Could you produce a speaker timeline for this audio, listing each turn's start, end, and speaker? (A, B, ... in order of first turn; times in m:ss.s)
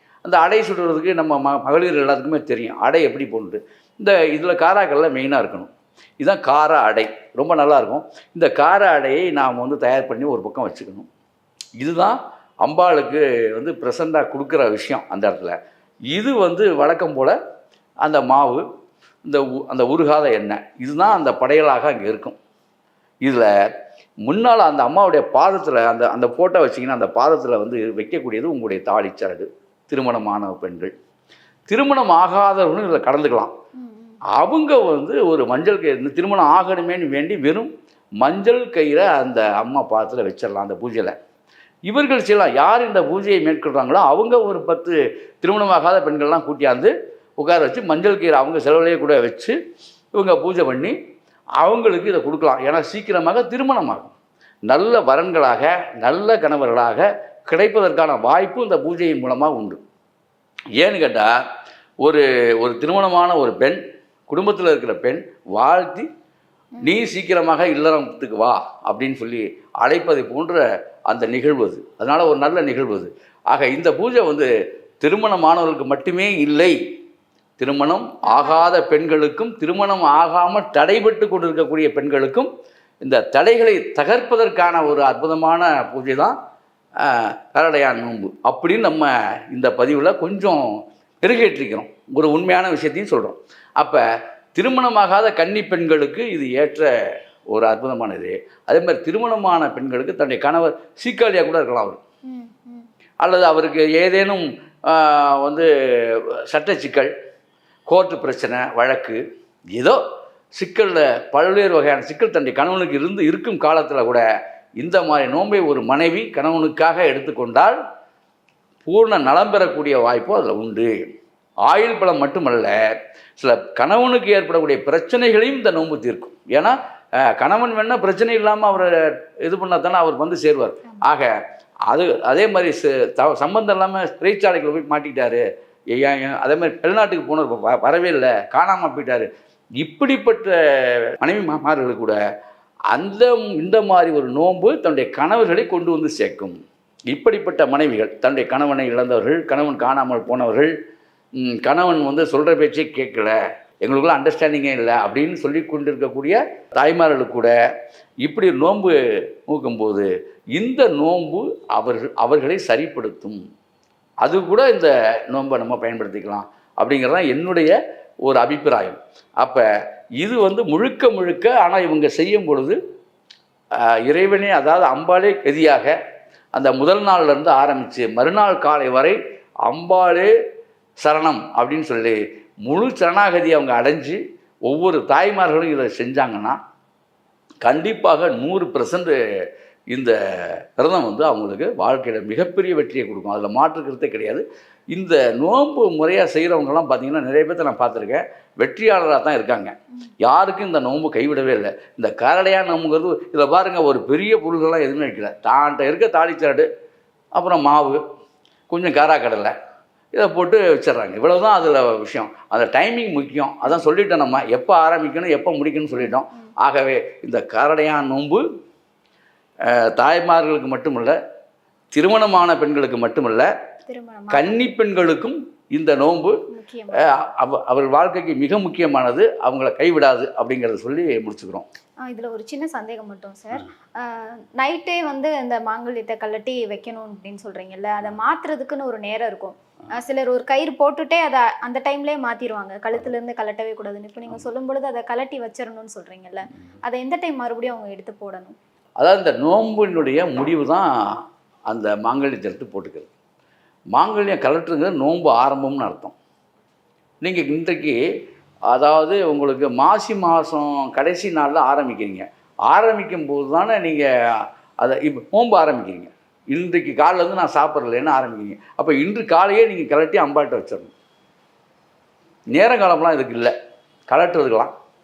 0:00.2-0:11.1 A
0:11.8-0:15.6 A
0:16.1-0:17.3 A
0:18.0-0:18.6 A
0:19.2-0:22.4 A
0:23.2-0:23.5 A
0:24.2-0:30.9 A
0:31.7-0:33.5 A
0:33.8-0:34.2 B
0:34.3-0:37.7 A
0:38.2-0:41.2 A
0:41.9-0:49.6 A
0:50.1-0:51.0 A
0:51.6-0:54.1 A
0:54.7-0:59.8 A
1:00.8-1:01.3 A
1:02.0-1:06.1 A
1:06.8-1:14.5 A
1:15.0-1:16.8 A
1:17.6-1:22.5 A
1:18.2-1:18.6 B
1:23.0-1:26.4 A
1:27.0-1:36.9 A
1:37.5-1:42.0 A
1:42.3-1:42.9 B
1:43.2-1:47.1 A
1:47.9-1:49.2 A
1:49.7-1:50.0 A
1:50.5-1:54.2 A
1:54.8-1:57.8 A
1:58.8-2:00.9 A
2:01.6-2:02.8 A
2:03.4-2:11.3 A
2:11.9-2:19.3 A
2:19.8-2:22.2 A
2:22.9-2:26.6 A
2:27.1-2:30.7 A
2:31.4-2:37.5 A
2:38.2-2:43.4 A
2:44.2-2:49.6 A
2:50.2-2:52.8 A
2:53.7-2:55.9 A
2:56.5-3:00.3 A
3:01.0-3:06.6 A
3:07.6-3:09.2 A
3:09.9-3:26.6 A
3:27.3-3:28.0 A
3:28.7-3:29.5 A
3:30.1-3:38.4 A
3:36.0-3:36.5 B
3:39.6-3:41.2 A
3:41.9-3:43.5 A
3:43.9-3:44.6 B
3:44.3-3:46.4 A
3:46.5-3:47.2 B
3:46.9-3:51.6 A
3:52.0-4:08.6 B
4:09.0-4:13.1 A
4:13.9-4:16.1 A
4:17.2-4:18.0 A
4:18.7-4:30.9 A
4:32.5-4:33.5 A
4:34.1-4:34.7 A